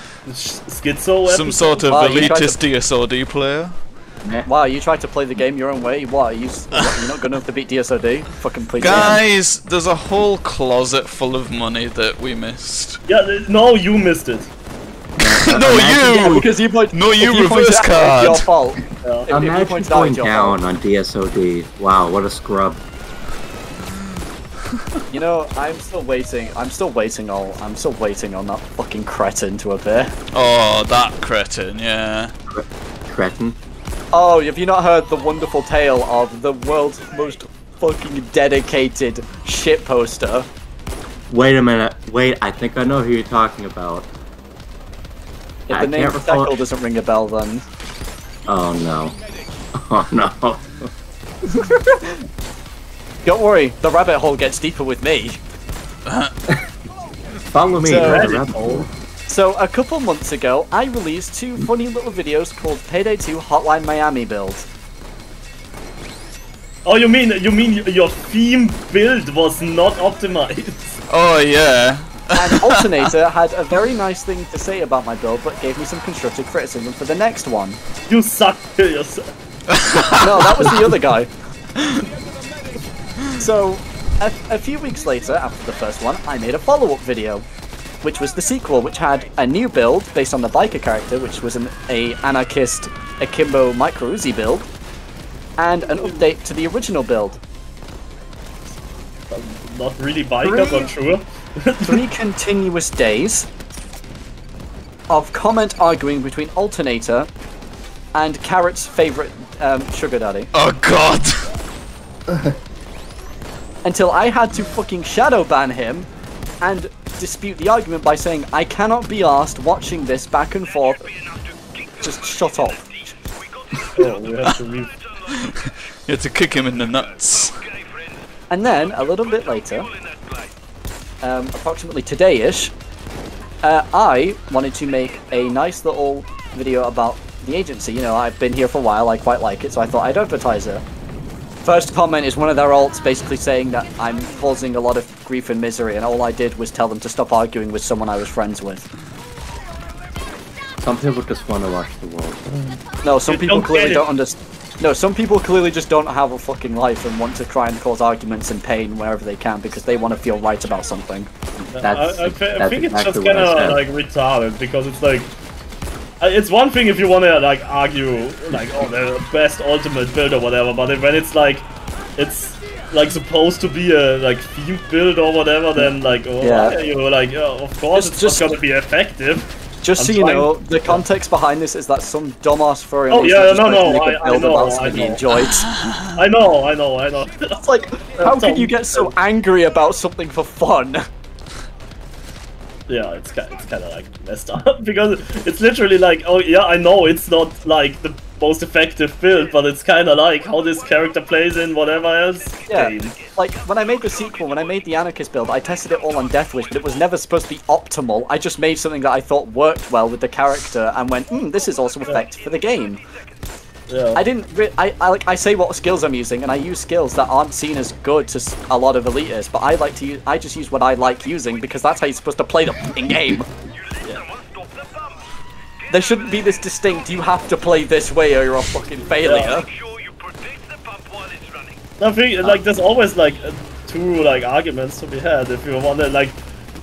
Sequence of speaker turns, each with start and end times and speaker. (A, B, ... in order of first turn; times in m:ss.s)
0:00.2-0:02.3 A
0:01.3-0:03.8 B
0:01.9-0:02.6 C
0:04.4-0:09.2 C
0:06.7-0:07.0 B
0:08.8-0:13.0 B
0:08.9-0:09.2 D
0:13.1-0:14.5 A
0:15.2-0:16.4 D
0:15.2-0:18.5 B
0:15.6-0:20.6 C
0:19.0-0:19.3 A
0:19.3-0:22.8 D
0:25.1-0:30.2 C
0:30.3-0:32.3 B
0:32.5-0:33.6 D
0:34.1-0:40.5 C
0:41.3-0:44.1 D
0:45.7-0:47.6 C
0:45.7-0:46.6 D
0:48.5-0:49.2 D
0:49.7-0:50.9 D
0:51.5-0:52.2 C
0:53.2-0:55.4 C
0:56.1-0:56.3 B
0:57.5-0:58.9 D
0:57.8-0:58.3 C
0:57.9-0:58.8 A
0:59.3-1:04.7 C
1:06.8-1:11.0 A
1:11.1-1:13.1 B
1:12.4-1:17.8 C
1:18.1-1:19.3 A
1:19.7-1:20.7 B
1:20.2-1:21.3 C
1:21.8-1:22.0 B
1:23.4-1:27.5 C
1:28.0-1:34.7 C
1:35.6-1:37.4 C
1:39.3-1:42.1 A
1:40.4-1:40.9 C
1:41.8-1:43.5 C
1:45.1-1:47.3 C
1:48.1-1:50.5 C
1:50.5-1:51.5 B
1:52.3-1:52.6 D
1:53.8-1:56.1 C
1:56.6-2:01.2 C
2:02.0-2:03.2 C
2:03.9-2:05.0 A
2:05.3-2:07.6 B
2:08.5-2:09.9 C
2:11.2-2:12.7 C
2:13.6-2:20.8 C
2:21.6-2:28.9 C
2:30.8-2:32.8 D
2:33.0-2:41.3 C
2:33.3-2:34.0 A
2:41.6-2:43.8 D
2:41.8-2:45.3 A
2:46.2-3:01.0 A
2:56.4-2:56.8 C
2:57.9-2:58.6 C
2:59.8-3:05.7 C
3:03.1-3:05.2 A
3:05.4-3:06.2 B
3:06.2-3:07.6 A
3:07.6-3:11.1 C
3:08.2-3:09.1 A
3:12.9-3:23.2 A
3:22.7-3:33.0 C
3:33.9-3:34.2 A
3:34.2-3:43.5 C
3:45.9-3:49.7 C
3:49.2-3:49.6 A
3:52.0-3:56.4 A